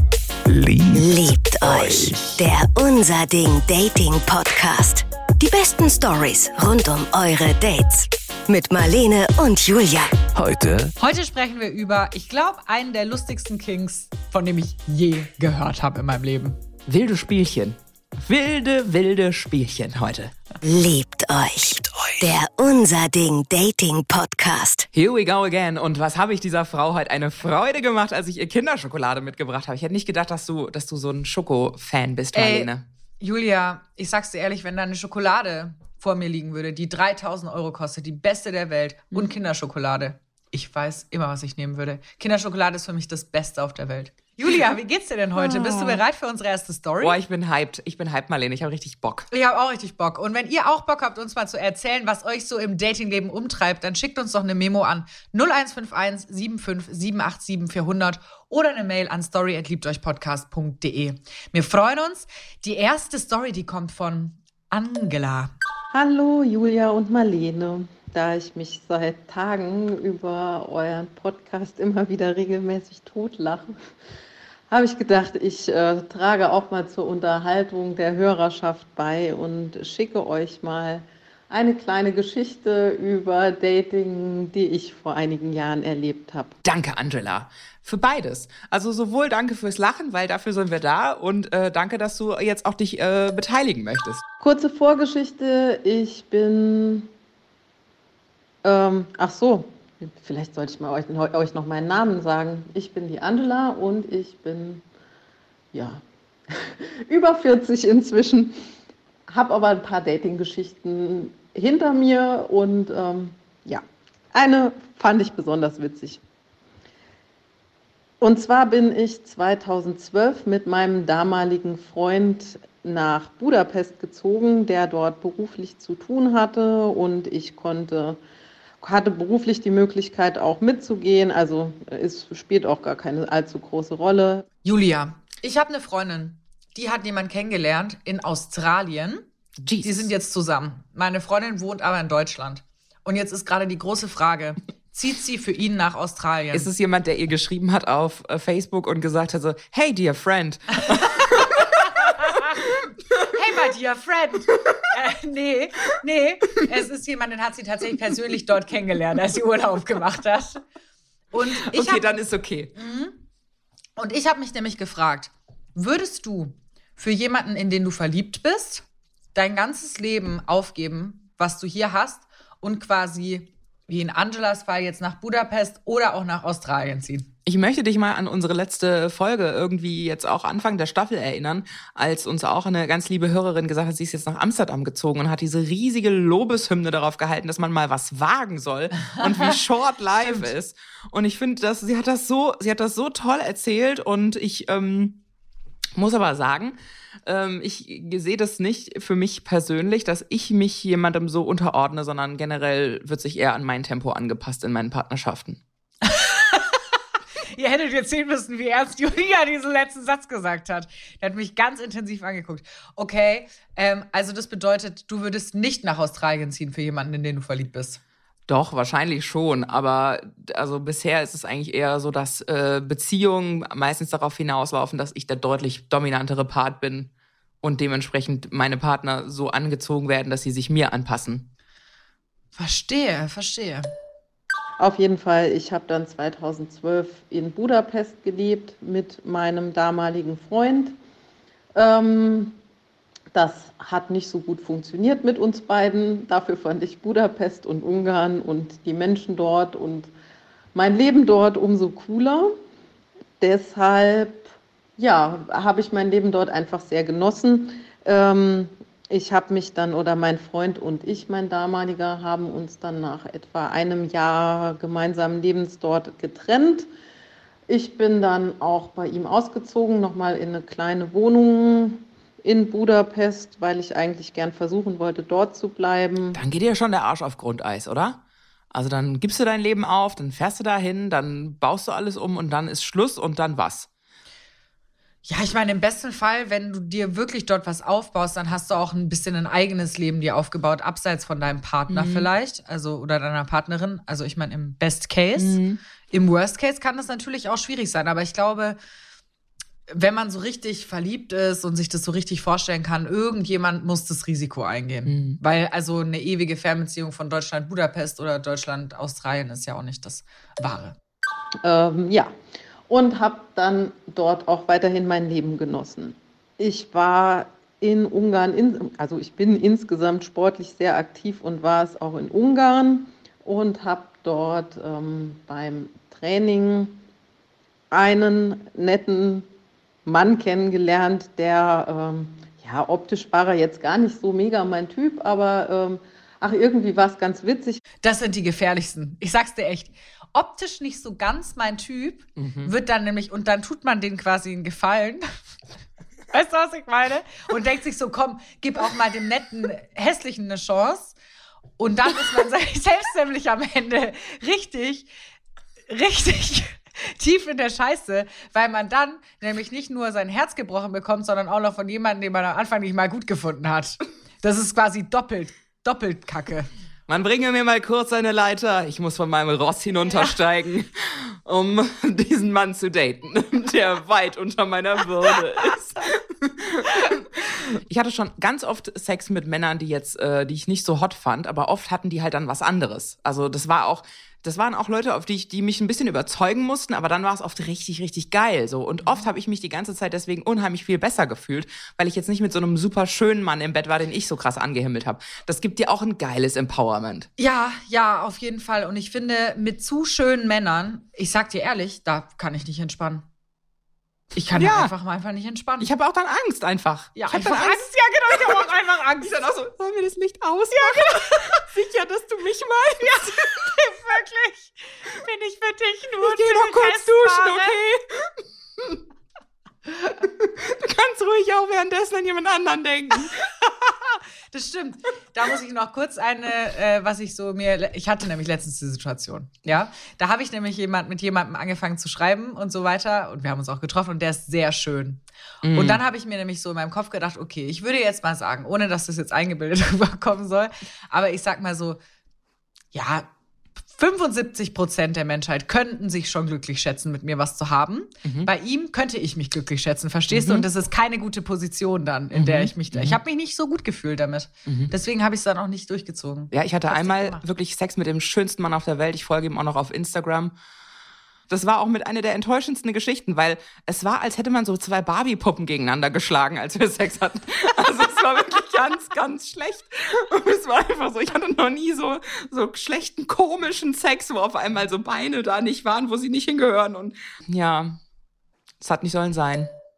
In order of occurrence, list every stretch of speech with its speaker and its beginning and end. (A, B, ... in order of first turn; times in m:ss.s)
0:00.5-0:01.0 A
0:00.9-0:10.1 B
0:01.6-0:02.4 A
0:10.3-0:10.9 A
0:11.0-0:16.6 C
0:16.8-0:20.3 D
0:20.6-0:24.9 B
0:24.9-0:32.8 D
0:32.3-0:32.7 C
0:33.2-0:47.2 C
0:45.4-0:46.0 D
0:47.0-0:49.3 D
0:49.3-1:05.5 C
1:05.9-1:13.7 E
1:14.7-1:26.5 E
1:26.6-1:34.2 D
1:34.4-1:37.1 E
1:38.6-1:44.8 E
1:45.7-1:48.6 E
1:49.3-1:56.2 E
1:58.2-2:08.2 E
2:08.8-2:14.4 E
2:14.6-2:19.2 C
2:19.6-2:20.1 D
2:19.8-2:26.7 C
2:26.5-2:32.1 D
2:31.2-2:32.6 C
2:33.3-2:40.6 C
2:41.3-2:42.2 C
2:41.7-2:42.7 D
2:42.7-2:43.2 C
2:44.0-2:57.3 C
2:57.4-3:15.2 D
3:10.2-3:10.5 C
3:16.0-3:25.6 D
3:26.0-3:26.8 C
3:27.5-3:38.0 C
3:38.5-3:47.1 D
3:47.6-3:51.5 D
3:52.6-3:53.9 C
3:54.8-4:00.9 E
4:01.7-4:02.6 E
4:03.3-4:10.1 E
4:10.7-4:12.5 E
4:13.4-4:14.5 E
4:15.0-4:26.9 E
4:27.7-4:36.4 E
4:36.3-4:38.2 D
4:38.7-4:43.9 D
4:45.2-4:55.6 C
4:51.9-4:52.3 D
4:55.4-4:55.8 D
4:56.1-4:58.8 C
4:59.9-5:11.0 C
5:05.0-5:05.4 D
5:11.6-5:12.3 E
5:12.9-5:27.0 E
5:27.9-5:29.5 E
5:30.0-5:37.8 E
5:38.0-5:45.3 C
5:42.4-5:42.7 D
5:46.3-5:51.2 C
5:51.8-5:55.1 C
5:55.9-6:06.7 C
6:07.1-6:37.3 D
6:37.4-6:43.2 C
6:44.3-6:45.9 C
6:44.5-6:44.9 D
6:45.8-6:53.7 D
6:47.2-6:49.3 C
6:50.7-6:51.7 C
6:53.1-6:57.8 C
6:56.2-6:58.0 D
7:00.0-7:03.4 D
7:03.8-7:22.0 C
7:15.6-7:16.0 D
7:22.9-7:23.3 C
7:23.9-7:37.4 C
7:28.2-7:28.5 D
7:30.3-7:30.6 D
7:32.3-7:33.2 D
7:34.7-7:34.9 D
7:36.5-7:40.5 D
7:41.5-7:58.0 D
7:58.8-7:59.7 D